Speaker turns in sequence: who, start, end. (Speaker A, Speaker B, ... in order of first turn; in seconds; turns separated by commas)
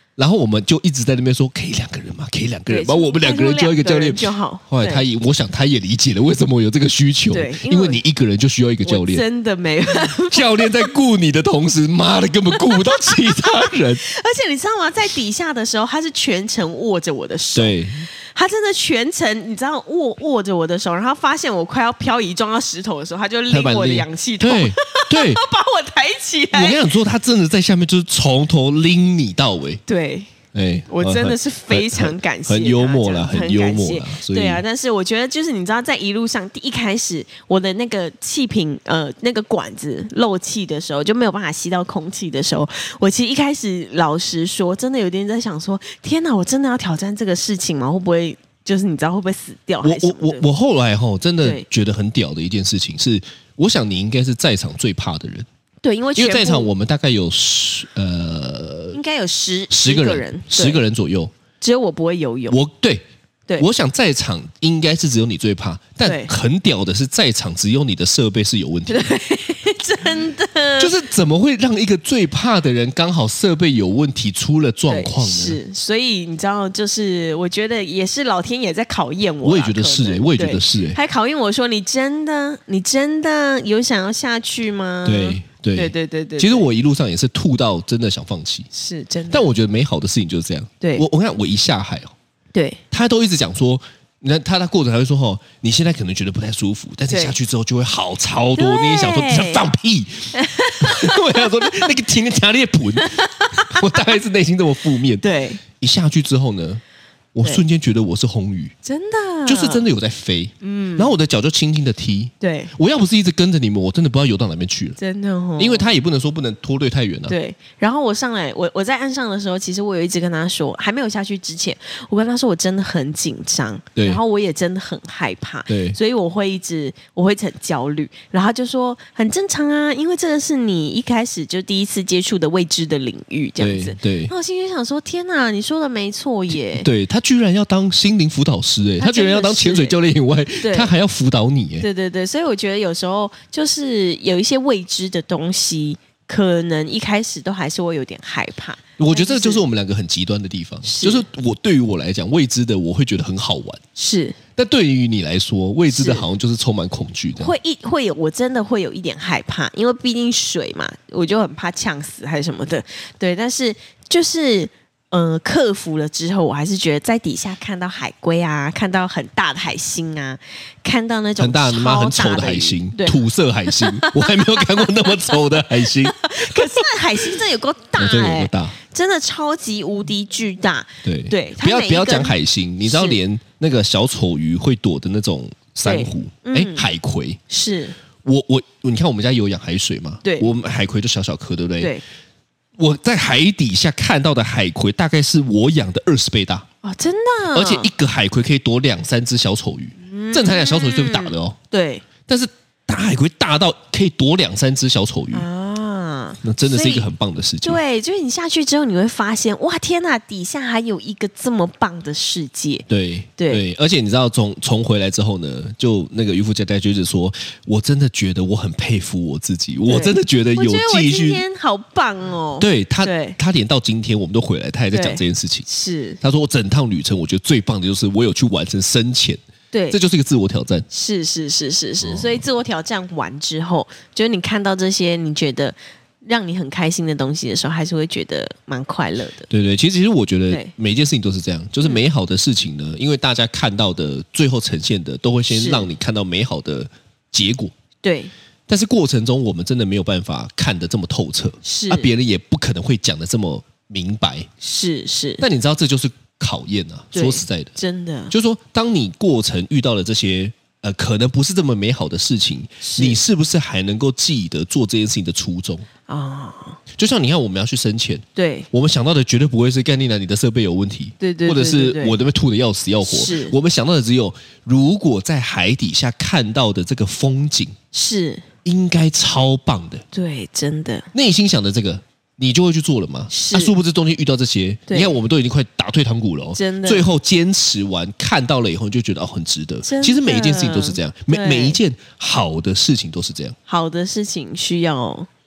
Speaker A: 0.2-9.2, Speaker B: 2.7-5.0, Speaker B: 7.3-8.0, Speaker B: 8.8-10.9, Speaker A: 10.0-14.0, Speaker B: 12.6-17.8, Speaker A: 17.5-18.1, Speaker B: 18.3-26.9, Speaker A: 23.5-25.4, Speaker A: 26.5-29.8, Speaker B: 29.9-30.3, Speaker A: 30.5-34.6, Speaker B: 30.9-50.4, Speaker A: 49.8-55.5, Speaker B: 55.8-56.7, Speaker A: 56.1-59.0, Speaker B: 58.9-60.8, Speaker A: 59.7-61.3, Speaker B: 61.6-62.6, Speaker A: 62.5-63.0, Speaker A: 63.6-69.1, Speaker B: 66.0-66.3, Speaker B: 68.9-70.9, Speaker A: 70.8-75.6, Speaker B: 74.9-86.7, Speaker A: 79.4-81.0, Speaker A: 85.0-88.7, Speaker B: 88.7-89.5, Speaker A: 89.3-92.1, Speaker B: 92.5-92.8, Speaker A: 92.9-105.2, Speaker B: 97.1-97.3, Speaker B: 98.5-99.7, Speaker B: 100.3-101.9, Speaker B: 103.0-104.0, Speaker B: 105.2-105.6, Speaker A: 105.8-106.8, Speaker A: 107.3-108.7, Speaker B: 108.8-109.9, Speaker A: 109.5-115.0, Speaker B: 110.6-111.1, Speaker B: 112.4-112.7, Speaker B: 115.0-115.9, Speaker A: 115.6-117.3, Speaker B: 117.3-136.9, Speaker A: 125.7-126.0, Speaker A: 133.6-134.3, Speaker A: 136.7-141.9, Speaker B: 139.0-140.0, Speaker B: 140.6-140.9, Speaker B: 141.8-149.6, Speaker A: 149.0-153.8, Speaker B: 150.8-151.2, Speaker B: 153.9-154.4, Speaker A: 154.6-157.5, Speaker B: 155.9-156.3, Speaker B: 157.4-182.3, Speaker A: 171.4-177.3, Speaker A: 178.0-178.8, Speaker A: 181.0-187.4, Speaker B: 182.8-183.2, Speaker B: 185.8-186.9, Speaker B: 187.5-187.9, Speaker A: 188.2-191.9, Speaker B: 190.2-190.5, Speaker A: 192.8-196.6, Speaker B: 196.8-197.9, Speaker A: 197.5-201.6, Speaker B: 200.0-202.0, Speaker A: 202.3-205.5, Speaker B: 205.3-207.1, Speaker A: 206.4-207.8, Speaker B: 207.6-212.8, Speaker A: 212.9-221.4, Speaker B: 213.4-213.6, Speaker B: 219.9-223.4, Speaker A: 222.6-225.7, Speaker B: 224.9-226.2, Speaker A: 226.2-229.4, Speaker B: 229.7-230.0, Speaker A: 229.9-230.9, Speaker B: 230.9-239.5, Speaker A: 232.0-232.3, Speaker A: 239.5-247.7, Speaker B: 245.5-245.9, Speaker B: 248.0-248.3, Speaker A: 248.7-254.5, Speaker B: 251.6-252.1, Speaker B: 254.6-255.4, Speaker A: 255.4-257.7, Speaker B: 257.1-258.3, Speaker A: 258.3-265.9, Speaker B: 262.8-263.2, Speaker B: 266.1-266.8, Speaker A: 266.9-277.8, Speaker B: 268.4-268.7, Speaker B: 271.2-272.2, Speaker B: 273.0-273.5, Speaker B: 277.9-278.4, Speaker A: 278.6-280.0, Speaker B: 280.1-281.1, Speaker A: 281.1-293.6, Speaker B: 283.3-283.8, Speaker B: 284.9-285.1, Speaker B: 286.5-287.1, Speaker B: 289.8-291.8, Speaker B: 293.7-295.3